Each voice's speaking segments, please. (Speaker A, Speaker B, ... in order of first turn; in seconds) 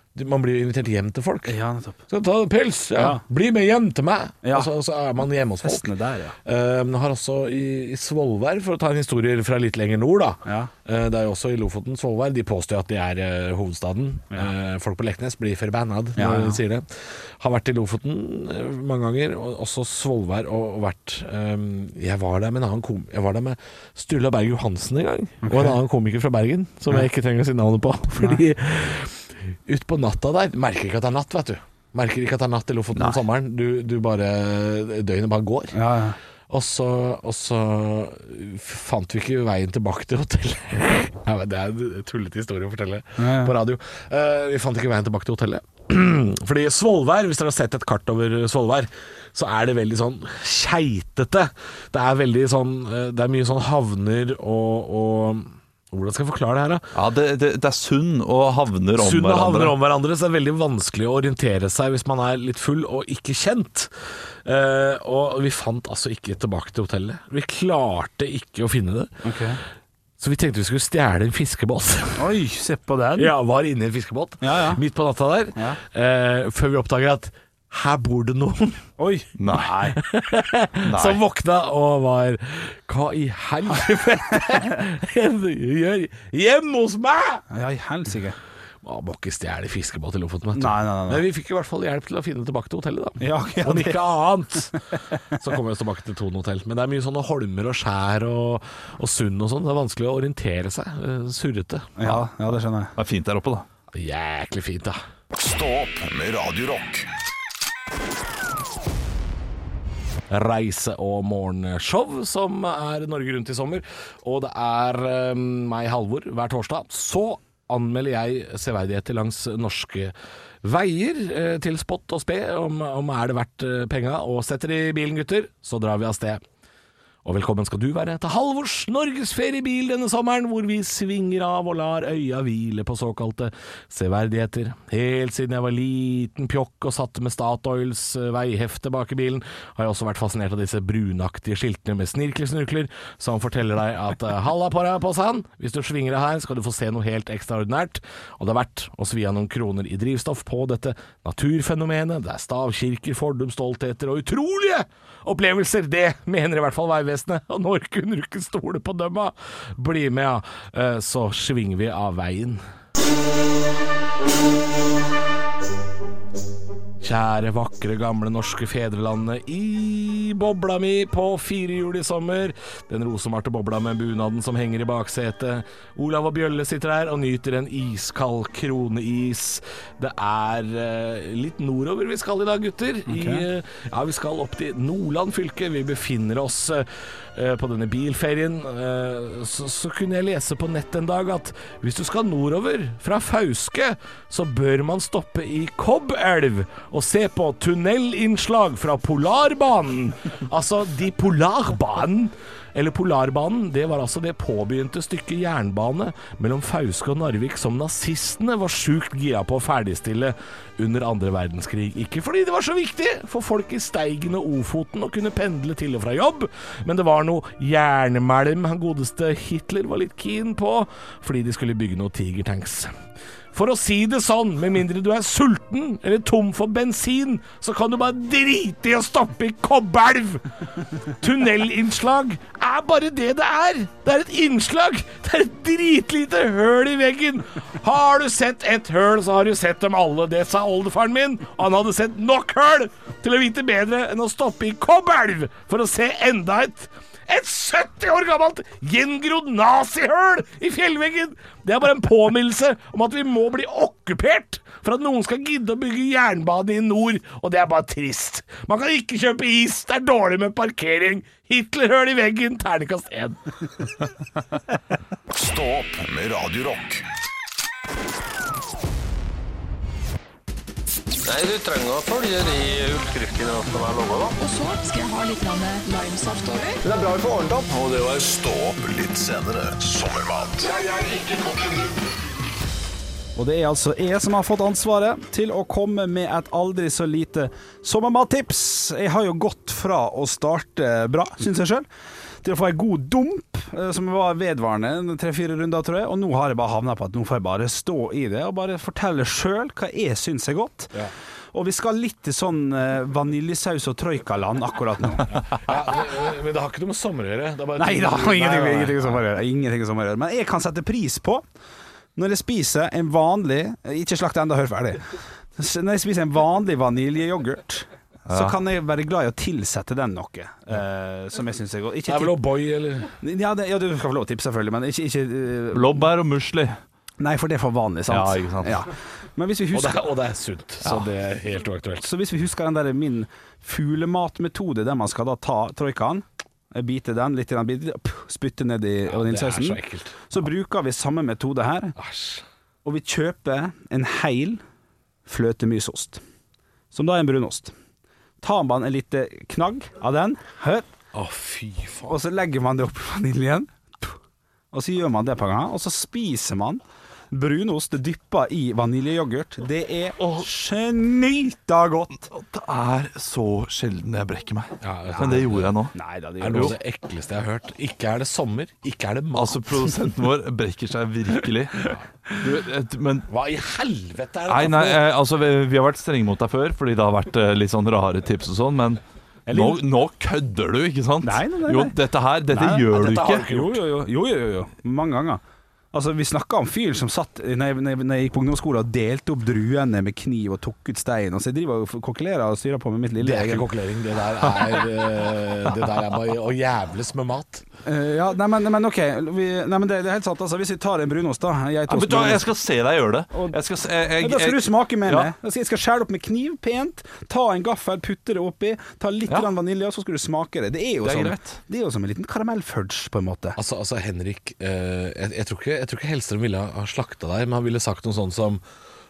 Speaker A: 0.1-1.6, 2.1-5.9, 6.4-35.8, 36.5-56.8, 59.0-63.9, 64.4-69.2, 70.2-72.2, 73.2-78.8, 79.9-87.4, 88.8-94.8, 95.3-102.1, 103.9-105.0, 110.3-126.4, 127.2-162.6, 167.0-222.9, 223.5-230.5, 231.0-263.8, 305.3-309.2, 322.1-323.1, 329.7-332.1, 339.1-340.2, 342.0-342.4, 351.1-352.1, 364.8-365.8, 366.4-369.9, 373.3-375.0, 382.9-383.8, 393.2-397.6, 413.6-418.6
Speaker B: 1.4-2.0, 3.0-3.2, 4.4-4.7, 5.6-6.3, 10.4-10.7, 16.1-16.6, 25.4-25.7, 35.7-36.2, 43.2-43.5, 69.2-69.6, 72.2-73.3, 74.4-74.8, 79.0-80.0, 87.5-88.3, 90.5-91.2, 93.2-94.0, 94.8-95.2, 102.0-102.9, 183.1-183.4, 283.4-291.9, 292.4-300.9, 301.5-305.4, 307.8-311.4, 312.1-315.0, 315.6-322.4, 323.2-326.1, 327.2-330.1, 332.0-341.9, 342.8-344.6, 345.2-346.2, 346.9-347.7, 348.4-350.9, 352.1-354.2, 354.7-362.3, 365.9-366.8, 379.5-379.8, 381.2-381.9, 382.5-385.4, 385.9-393.7, 397.8-402.4, 404.2-413.6
Speaker C: 56.9-59.8, 79.4-79.8, 80.8-81.2, 103.0-103.7, 318.3-318.6, 325.7-326.8, 328.1-328.8, 330.8-331.1, 362.3-365.9, 369.3-373.3, 374.5-383.4, 401.9-405.3, 411.0-411.6
Speaker D: 105.3-107.1, 265.3-267.0, 277.6-280.7
Speaker E: 271.2-274.4, 276.8-277.7, 280.9-281.8
Speaker F: 274.4-276.7